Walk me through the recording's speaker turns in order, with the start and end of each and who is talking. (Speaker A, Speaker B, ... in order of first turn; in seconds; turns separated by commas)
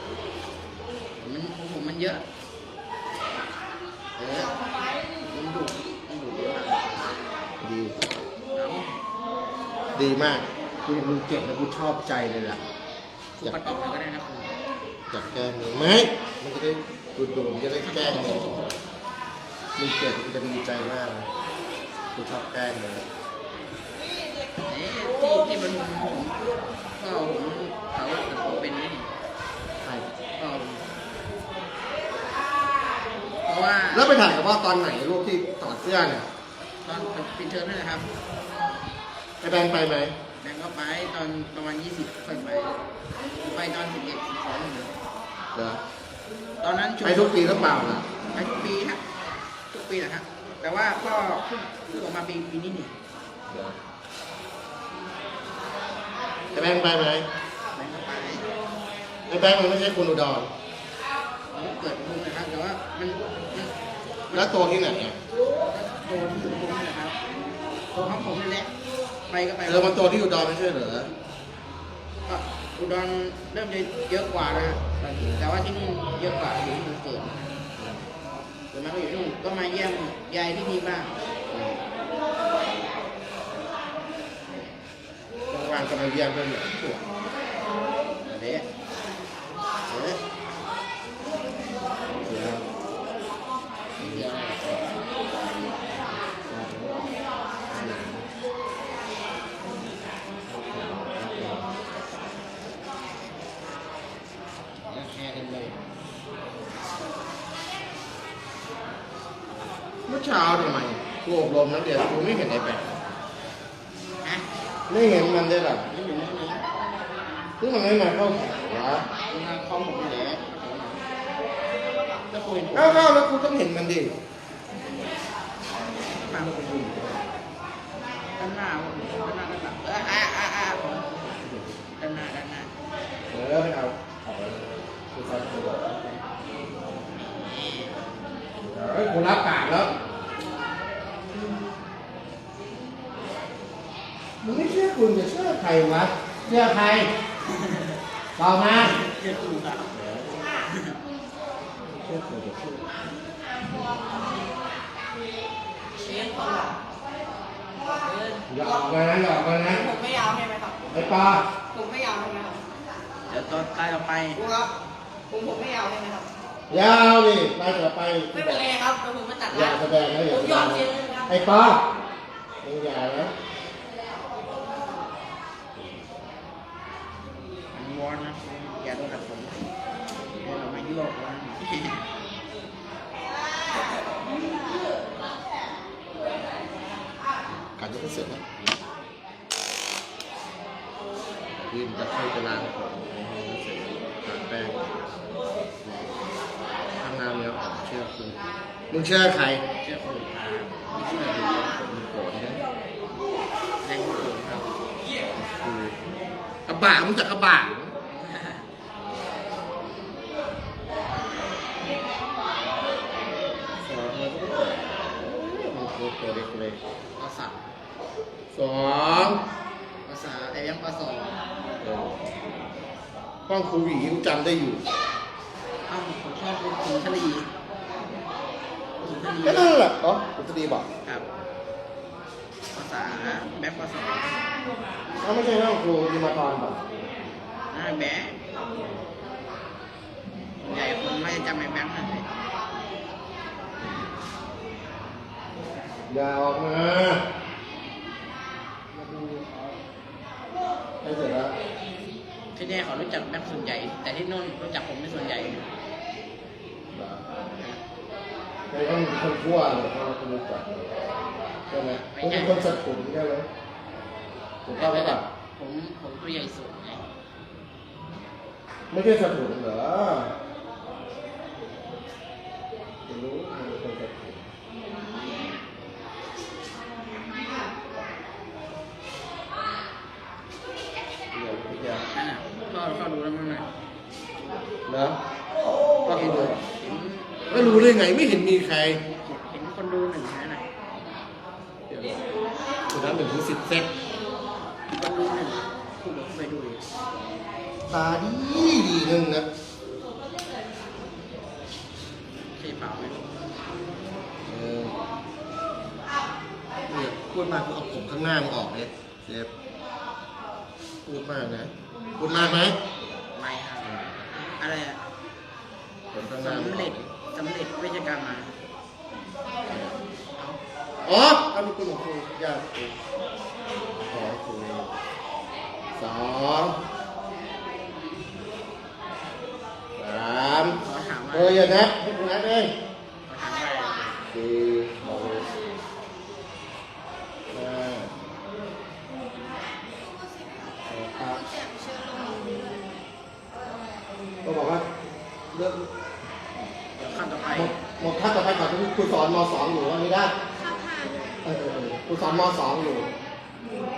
Speaker A: 1.2-2.2, Speaker A: 4.2-4.5, Speaker A: 5.2-7.2, Speaker B: 7.6-8.2, Speaker A: 8.6-8.9, Speaker B: 9.9-12.6, Speaker A: 13.4-14.5, Speaker B: 15.1-18.7, Speaker A: 17.8-18.7, Speaker B: 19.8-21.3, Speaker B: 22.1-23.1, Speaker A: 24.7-26.4, Speaker A: 27.0-29.1, Speaker A: 30.4-30.9, Speaker A: 33.5-34.1, Speaker B: 33.9-36.2, Speaker A: 36.8-38.1, Speaker B: 39.4-40.1, Speaker A: 40.4-42.8, Speaker A: 43.4-44.9, Speaker B: 45.5-45.8, Speaker A: 46.6-49.0, Speaker B: 47.0-48.1, Speaker A: 49.7-52.9, Speaker B: 53.5-53.8, Speaker B: 56.5-57.2, Speaker A: 57.8-58.5, Speaker B: 59.3-60.5, Speaker A: 61.5-63.7, Speaker A: 64.3-64.6, Speaker B: 64.3-65.2, Speaker A: 65.7-67.2, Speaker A: 67.9-68.7, Speaker A: 69.3-70.0, Speaker B: 69.7-71.1, Speaker A: 72.3-77.5, Speaker B: 77.8-78.1, Speaker A: 78.7-81.2, Speaker B: 81.5-81.8, Speaker B: 85.5-87.0, Speaker A: 88.3-88.7, Speaker B: 89.9-90.2, Speaker B: 92.2-92.6, Speaker B: 94.0-94.4, Speaker A: 94.0-94.8, Speaker B: 96.5-97.1, Speaker B: 97.7-98.3, Speaker B: 100.5-101.7, Speaker B: 104.9-105.7, Speaker B: 110.1-113.0, Speaker B: 114.9-115.8, Speaker A: 115.9-116.6, Speaker B: 117.6-119.1, Speaker A: 119.3-121.0, Speaker A: 122.3-123.1, Speaker B: 122.7-124.1, Speaker A: 126.1-126.5, Speaker B: 126.3-127.2, Speaker A: 128.4-132.7, Speaker B: 131.4-131.8, Speaker B: 133.3-136.2, Speaker A: 137.2-138.0, Speaker B: 138.6-139.9, Speaker B: 144.4-147.1, Speaker A: 147.5-147.9, Speaker B: 148.3-149.0, Speaker A: 148.8-149.9, Speaker B: 149.9-150.5, Speaker A: 150.7-151.0, Speaker B: 151.9-152.9, Speaker C: 156.3-156.7, Speaker B: 158.5-159.9, Speaker C: 159.9-160.8, Speaker B: 160.9-161.5, Speaker C: 161.7-162.6, Speaker A: 163.3-164.4, Speaker C: 165.3-166.2, Speaker B: 166.7-168.8, Speaker C: 168.7-169.5, Speaker B: 169.5-171.8, Speaker B: 172.6-173.3, Speaker A: 177.7-179.6, Speaker A: 180.4-182.0, Speaker B: 187.8-188.6, Speaker B: 191.6-194.8, Speaker B: 195.8-196.1, Speaker B: 197.0-198.4, Speaker B: 198.9-199.6, Speaker A: 199.8-201.7, Speaker B: 201.5-202.6, Speaker A: 203.8-204.7, Speaker B: 205.4-206.0, Speaker B: 206.7-207.9, Speaker A: 208.2-208.7, Speaker B: 213.8-216.8, Speaker A: 217.2-217.6, Speaker B: 218.5-219.4, Speaker A: 220.1-221.3, Speaker B: 221.8-222.3, Speaker B: 223.5-224.8, Speaker A: 225.9-227.5, Speaker A: 229.0-229.7, Speaker B: 229.4-230.9, Speaker A: 232.7-234.4, Speaker B: 235.2-236.8, Speaker A: 237.7-238.4, Speaker A: 240.6-242.3, Speaker B: 246.1-247.2, Speaker A: 248.9-249.8, Speaker B: 251.0-251.5, Speaker A: 252.6-255.7, Speaker B: 256.9-257.2, Speaker A: 257.5-257.8, Speaker B: 258.7-260.7, Speaker B: 261.7-263.5, Speaker A: 262.1-262.8, Speaker B: 264.6-265.2, Speaker A: 264.7-267.0, Speaker B: 268.9-270.3, Speaker B: 273.1-274.5, Speaker B: 281.3-282.1, Speaker A: 282.1-283.7, Speaker B: 284.9-285.2, Speaker B: 286.1-286.6, Speaker A: 286.1-288.0, Speaker B: 287.5-289.0, Speaker A: 289.1-290.7, Speaker B: 291.9-292.2, Speaker B: 292.9-293.9, Speaker A: 294.9-296.8, Speaker B: 297.9-299.5, Speaker A: 302.6-303.3, Speaker B: 304.4-304.9, Speaker B: 306.9-309.5, Speaker B: 311.1-312.8, Speaker A: 313.4-315.0, Speaker B: 316.1-317.1, Speaker A: 316.4-318.6, Speaker B: 319.7-320.0, Speaker B: 321.1-322.9, Speaker B: 324.1-324.9, Speaker B: 325.9-326.8, Speaker B: 330.0-330.8, Speaker A: 330.8-331.7, Speaker B: 331.3-332.7, Speaker A: 333.3-334.2, Speaker B: 334.3-335.5, Speaker B: 337.5-338.1, Speaker B: 340.9-341.5, Speaker B: 344.4-344.8, Speaker B: 345.5-345.9, Speaker A: 347.0-347.7, Speaker B: 347.5-350.3, Speaker B: 351.4-353.1